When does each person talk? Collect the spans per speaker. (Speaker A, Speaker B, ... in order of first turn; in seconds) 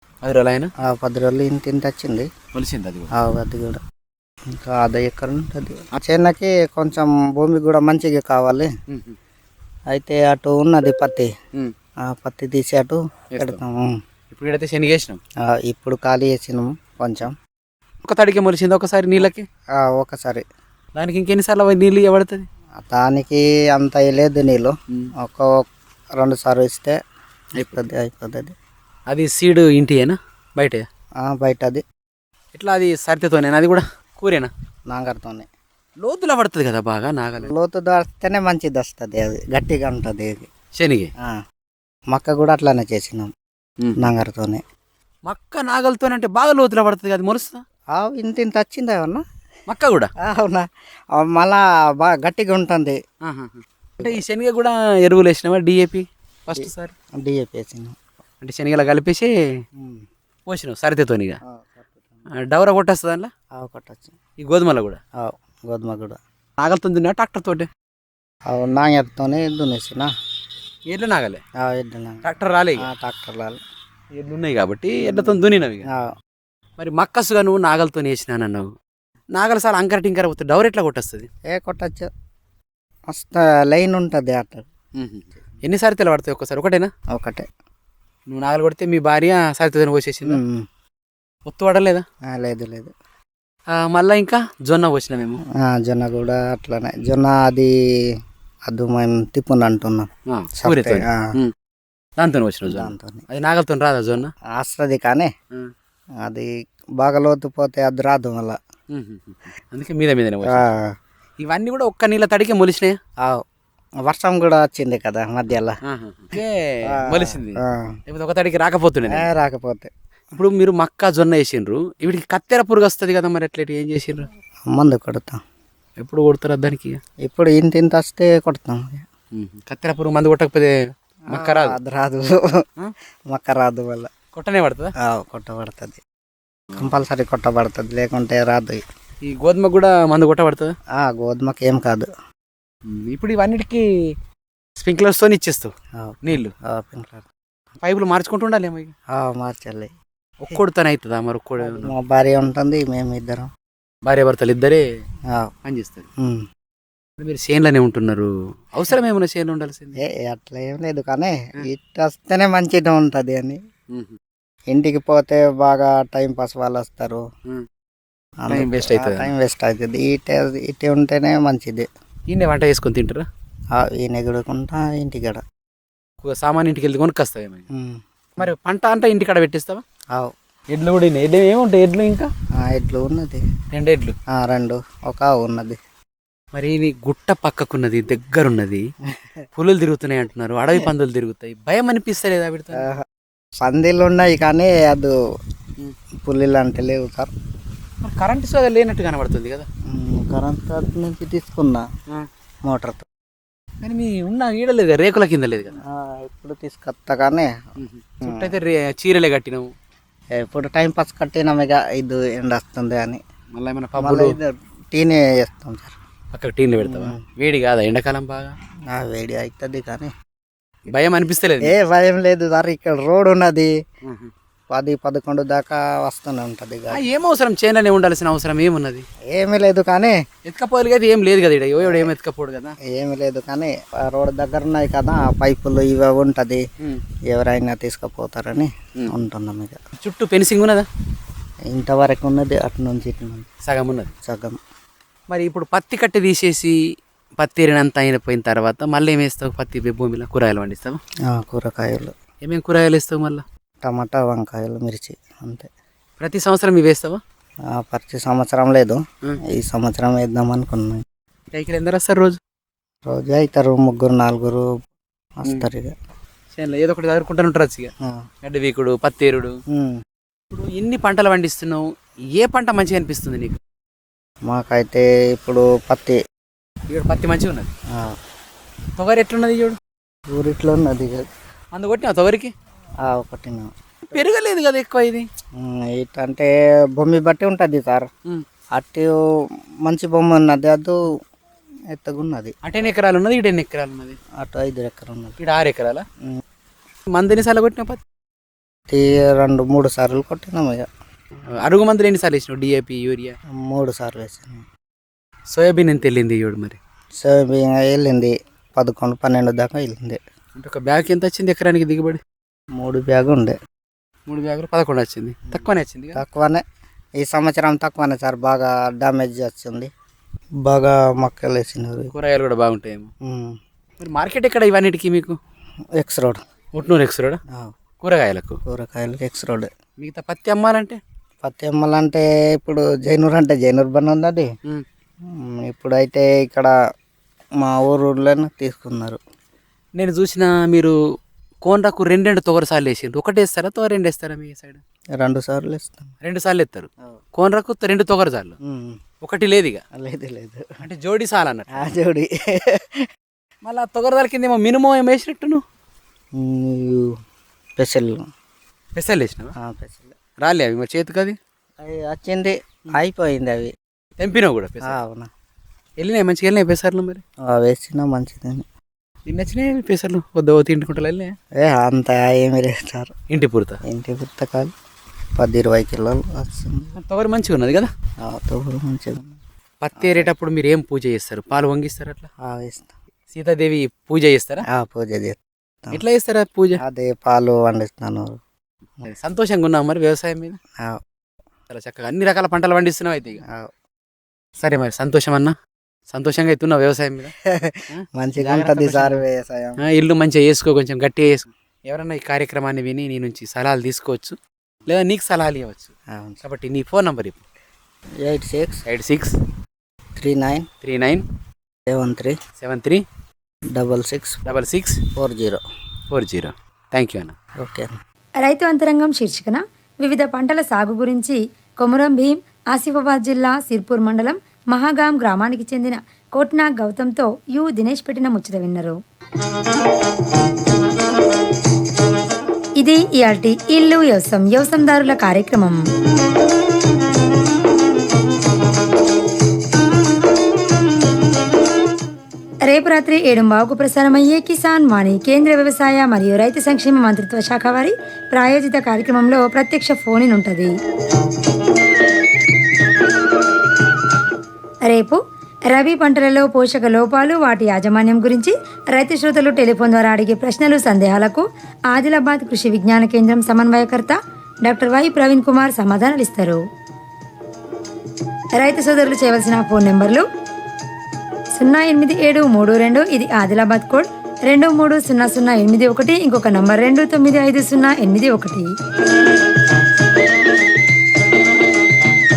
Speaker A: 0.2-0.7, 2.5-3.1, 8.9-9.2, 13.3-13.6, 14.3-15.2, 18.0-19.5, 20.9-22.5, 27.6-27.8, 29.1-30.9, 32.5-34.5, 36.0-37.5, 40.7-41.1, 43.8-44.1, 45.2-47.6, 49.7-50.1, 53.2-56.9, 58.4-59.6, 60.5-61.4, 62.3-63.3, 64.4-65.0, 66.6-67.7, 70.9-71.4, 72.2-72.9, 74.1-75.9, 76.8-78.7, 79.3-81.3, 85.0-86.9, 88.3-90.4, 91.5-92.0, 93.7-95.4, 100.3-101.5, 102.2-104.3, 108.9-110.7, 111.4-113.0, 115.9-119.3, 120.3-124.3, 126.0-127.0, 129.3-130.7, 131.3-131.8, 134.3-134.9, 139.2-140.7, 142.9-143.8, 144.8-145.7, 146.2-146.5, 147.8-148.9, 150.4-151.9, 154.0-154.8, 155.6-156.1, 157.2-160.0, 163.9-164.2, 168.5-169.3, 172.3-173.3, 176.2-177.7, 178.4-179.8, 180.7-182.3, 183.7-184.1, 186.5-188.8, 189.6-192.8, 198.0-199.7, 203.8-205.8, 207.8-209.7, 213.5-214.4, 216.3-218.5, 220.9-221.8, 224.0-224.3, 226.9-229.1, 230.5-232.8, 240.0-240.9, 243.6-244.1, 245.3-246.8, 247.4-251.0, 252.4-253.4, 256.2-257.2, 261.5-262.4, 266.5-267.9, 268.4-269.6, 270.5-273.6, 276.9-277.7, 279.0-279.8, 281.7-282.5, 284.1-285.3, 292.6-294.2, 295.4-296.0, 297.1-298.0, 301.6-303.3, 305.5-306.8, 310.6-312.2, 314.3-316.2, 322.1-323.1, 324.0-325.4, 326.7-327.4, 328.0-328.6, 330.0-331.0, 340.0-340.9, 341.6-344.8, 346.2-348.5, 349.2-349.8, 350.8-351.8, 353.6-355.6, 358.9-359.5, 360.4-361.4, 364.2-365.0, 366.0-367.2, 369.3-371.4, 373.3-373.8, 377.0-377.9, 379.8-382.3, 383.3-384.6, 385.9-386.8, 389.1-390.6, 391.7-393.4, 394.6-395.5, 396.1-397.3, 397.9-399.2, 399.8-405.9, 406.4-407.4, 408.9-409.3, 410.8-411.2, 412.6-413.0, 414.4-415.0, 416.1-417.3
Speaker B: 0.8-2.3, 3.1-3.8, 4.5-8.7, 9.9-11.3, 12.0-14.0, 15.4-17.3, 19.8-20.4, 22.8-25.6, 26.2-27.0, 27.6-28.5, 31.2-31.8, 34.9-35.5, 37.4-40.5, 42.1-43.3, 44.0-44.6, 47.9-49.2, 50.2-53.0, 56.6-58.0, 59.8-60.0, 61.5-62.2, 63.5-64.2, 65.2-66.2, 68.5-70.1, 71.6-72.2, 72.8-73.6, 75.0-76.1, 81.5-82.1, 83.1-84.7, 87.1-87.5, 90.2-90.7, 92.3-92.9, 95.6-97.7, 98.7-100.1, 100.6-101.3, 102.7-103.2, 104.5-105.3, 106.2-108.6, 110.4-110.9, 114.0-115.8, 116.9-118.0, 119.1-119.9, 124.7-125.4, 127.2-129.1, 131.3-132.7, 133.3-134.1, 135.0-136.0, 136.8-138.8, 141.0-142.1, 146.0-147.2, 149.1-149.9, 151.6-153.5, 156.2-156.4, 160.0-163.6, 164.7-167.2, 168.4-171.9, 173.7-175.4, 177.7-178.5, 182.6-183.4, 184.3-185.8, 192.8-193.0, 193.6-195.1, 196.2-197.3, 199.9-201.9, 202.7-203.1, 205.8-207.5, 208.2-208.5, 210.4-213.2, 214.0-215.9, 216.8-217.2, 218.9-220.1, 221.6-223.7, 224.7-227.0, 229.3-230.2, 231.8-232.1, 232.8-236.6, 237.3-239.8, 241.7-243.5, 244.2-244.6, 251.3-252.2, 253.8-255.7, 257.7-261.0, 263.1-264.7, 265.4-265.9, 268.0-268.2, 269.7-270.0, 274.5-276.2, 277.9-278.2, 280.3-281.2, 283.0-284.2, 285.6-288.1, 288.7-289.2, 289.8-291.0, 291.9-292.5, 294.4-295.4, 298.9-300.9, 303.5-304.7, 307.2-310.2, 312.8-313.6, 316.1-316.6, 317.2-319.9, 320.6-322.1, 323.2-323.6, 326.0-326.4, 328.6-329.7, 331.4-334.5, 335.3-336.7, 337.6-339.2, 345.2-346.1, 348.6-349.0, 349.9-350.6, 351.7-353.1, 356.4-357.1, 357.8-358.3, 359.6-360.1, 361.8-363.7, 364.9-365.3, 367.4-368.7, 371.6-373.1, 373.9-374.7, 375.4-376.9, 378.2-379.3, 380.0-380.3, 382.4-382.9, 384.7-386.0, 386.8-388.4, 393.4-393.7, 397.4-399.8, 406.1-406.4, 408.2-408.8, 410.1-410.7, 411.9-412.4, 413.7-414.4, 415.2-415.6, 417.6-417.9
Speaker C: 418.4-429.0, 432.8-435.8, 442.7-450.7, 454.9-455.2, 455.7-466.6, 468.6-470.2, 471.5-478.7